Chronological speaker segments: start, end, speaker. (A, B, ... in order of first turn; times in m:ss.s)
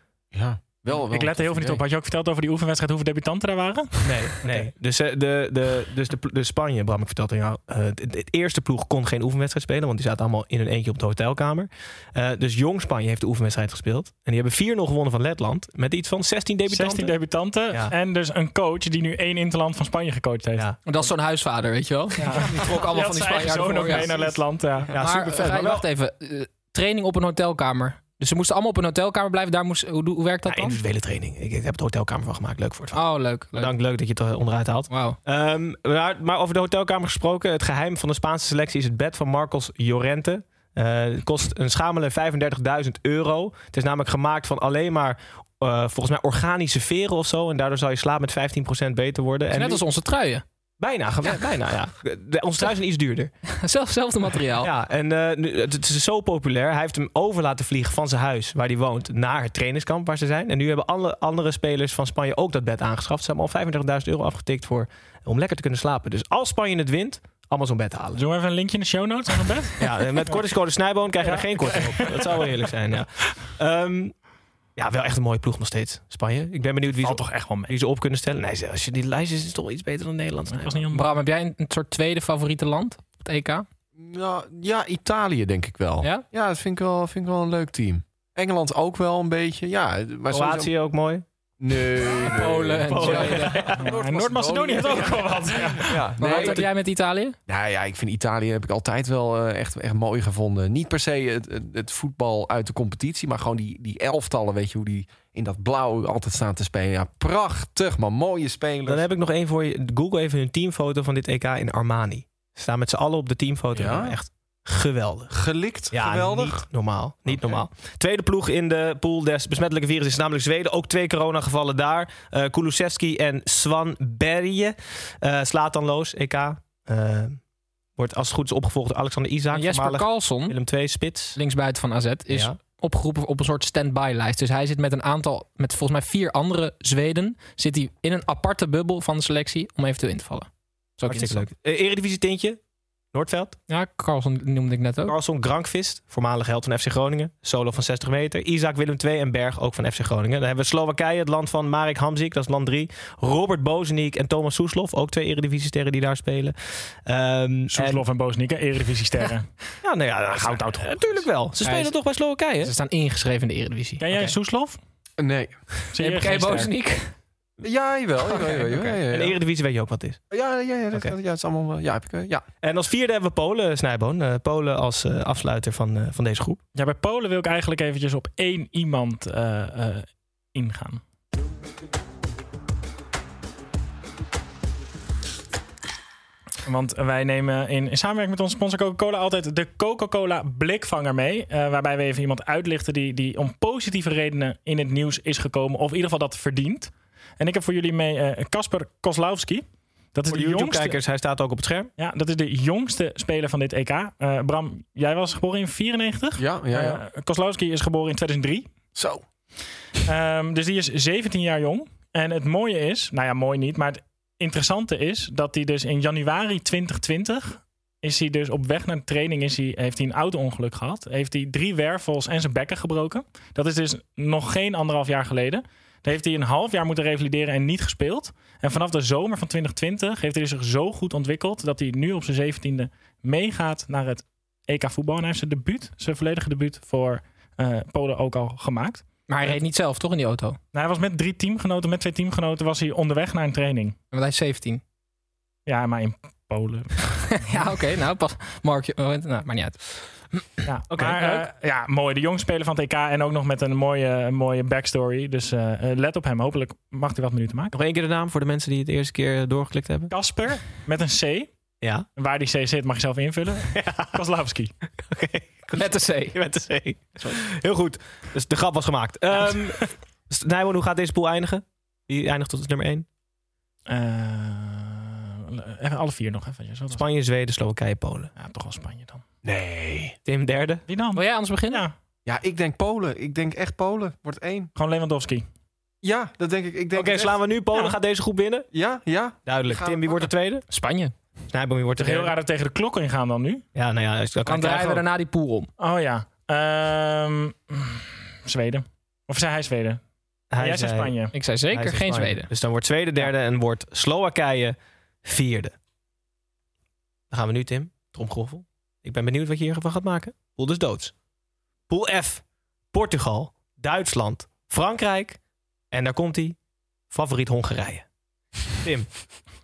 0:00.3-0:01.8 A
0:00.9-0:04.0 B
0:04.0-0:17.1 C
0:16.7-0:20.6 B
0:20.8-0:24.2 D
0:22.2-0:24.9 B
0:24.9-0:25.8 C
0:24.9-0:30.8 D
0:30.5-0:33.0 C
0:32.9-0:33.8 D
0:33.5-0:49.8 C
0:34.9-0:35.2 D
0:49.5-0:50.4 D
0:50.8-0:53.3 C
0:53.5-0:54.7 D
0:54.6-1:08.2 C
1:08.2-1:10.4 B
1:09.8-1:14.1 C
1:11.2-1:12.6 B
1:14.8-1:20.8 C
1:17.0-1:17.7 B
1:20.5-1:21.1 B
1:20.9-1:23.6 D
1:24.0-1:30.7 A
1:30.3-1:31.2 C
1:31.6-1:36.6 A
1:32.3-1:33.7 D
1:32.8-1:33.8 C
1:33.8-1:36.0 B
1:36.2-1:37.4 D
1:36.2-1:36.6 C
1:37.5-1:49.1 A
1:48.9-1:55.3 C
1:53.7-1:54.2 A
1:55.3-1:56.7 A
1:55.9-2:07.4 C
1:57.3-1:57.6 A
2:08.0-2:11.4 C
2:09.5-2:10.6 D
2:11.3-2:21.5 D
2:12.3-2:12.6 C
2:21.0-2:22.6 C
2:23.1-2:23.6 C
2:23.7-2:25.1 D
2:25.0-2:38.0 C
2:37.7-2:39.5 B
2:39.8-2:42.7 C
2:40.4-2:41.2 B
2:41.6-2:41.9 D
2:42.6-2:44.3 D
2:44.0-2:44.8 B
2:45.2-2:45.6 A
2:45.9-2:46.7 B
2:46.0-2:47.1 D
2:47.6-2:49.4 A
2:48.5-2:50.2 C
2:50.3-2:52.4 A
2:52.6-2:56.6 C
2:56.8-3:01.0 B
3:06.6-3:21.0 B
3:20.3-3:21.9 C
3:22.0-3:28.7 B
3:26.4-3:27.0 A
3:28.9-3:29.2 A
3:30.0-3:59.6 B
3:59.3-4:00.6 D
4:00.7-4:04.0 B
4:04.1-4:04.8 D
4:05.7-4:07.6 B
4:07.3-4:09.8 D
4:10.6-4:17.7 B
4:10.9-4:11.4 C
4:17.7-4:20.1 C
4:20.1-4:21.5 B
4:22.2-4:24.7 B
4:23.7-4:24.1 C
4:25.1-4:33.0 C
4:25.7-4:26.4 D
4:33.9-4:37.0 B
4:36.9-4:38.3 C
4:38.4-4:39.2 B
4:39.4-4:40.2 A
4:40.2-4:40.8 C
4:40.9-4:41.9 B
4:41.1-4:41.8 D
4:42.2-4:44.7 A
4:44.8-4:45.4 B
4:46.0-4:47.4 A
4:46.9-4:48.7 C
4:48.7-4:50.3 A
4:49.4-4:50.6 C
4:50.7-4:51.1 D
4:51.5-4:52.3 C
4:52.0-4:53.6 B
4:53.7-4:55.0 C
4:54.4-4:55.7 D
4:55.8-5:00.0 B
5:00.5-5:01.1 C
5:00.6-5:01.3 B
5:01.3-5:02.5 D
5:01.7-5:05.7 C
5:07.3-5:11.1 C
5:11.9-5:15.4 C
5:15.9-5:16.6 C
5:17.1-5:18.0 C
5:18.8-5:19.1 C